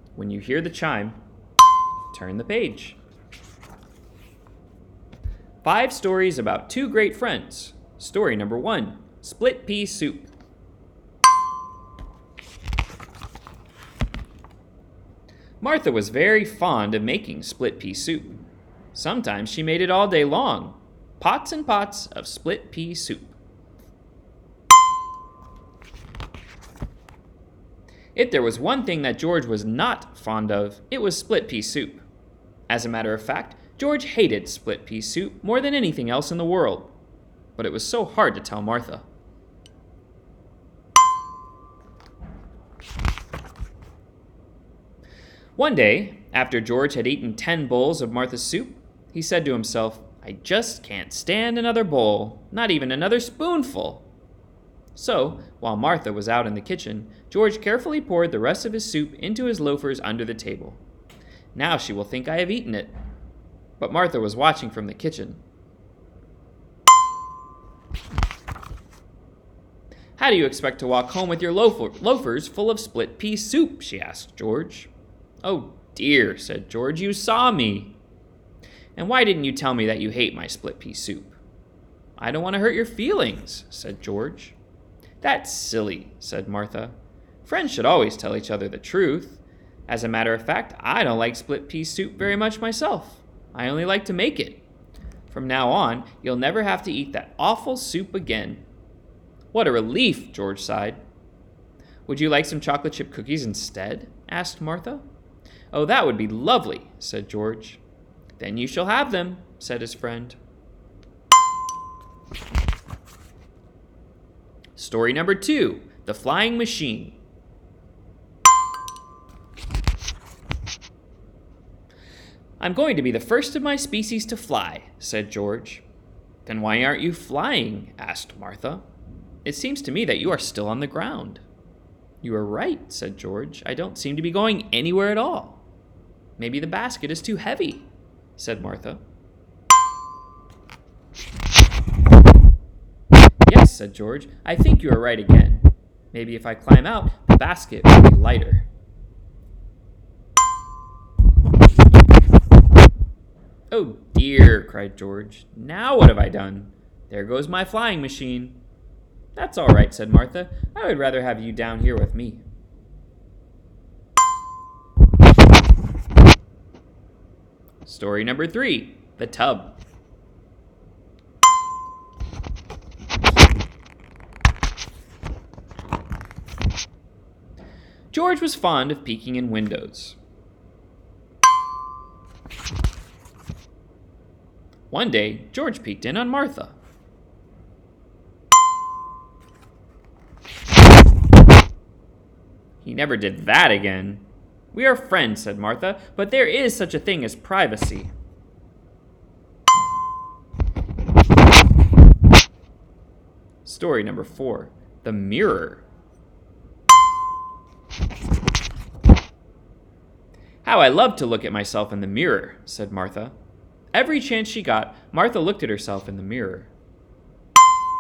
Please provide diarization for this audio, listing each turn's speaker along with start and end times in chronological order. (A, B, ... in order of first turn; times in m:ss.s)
0:00.2-0:01.2 A
0:02.1-0:03.0 A
0:05.6-0:10.3 A
0:15.6-0:18.4 A
0:18.9-0:23.4 A
0:28.1-0:32.0 A
0:32.7-0:36.9 A
0:37.6-0:39.0 A
0:45.6-0:54.1 A
0:54.9-1:00.8 A
1:01.5-1:02.9 A
1:03.8-1:05.4 A
1:10.2-1:14.9 A
1:15.4-1:18.0 A
1:19.0-1:21.4 A
1:22.2-1:24.6 A
1:25.2-1:34.6 A
1:35.3-1:38.6 A
1:39.5-1:41.0 A
1:42.0-1:45.0 A
1:45.7-1:47.8 A
1:48.4-1:50.4 A
1:54.8-1:57.2 A
2:02.6-2:05.8 A
2:06.4-2:08.8 A
2:09.4-2:11.4 A
2:12.2-2:15.6 A
2:16.4-2:19.0 A
2:23.4-2:28.7 A
2:33.7-2:38.6 A
2:39.3-2:42.4 A
2:47.8-2:49.8 A
2:58.1-3:00.2 A
3:04.9-3:06.7 A
3:12.8-3:18.1 A
3:23.6-3:25.8 A
3:30.6-3:33.3 A
3:33.9-3:36.7 A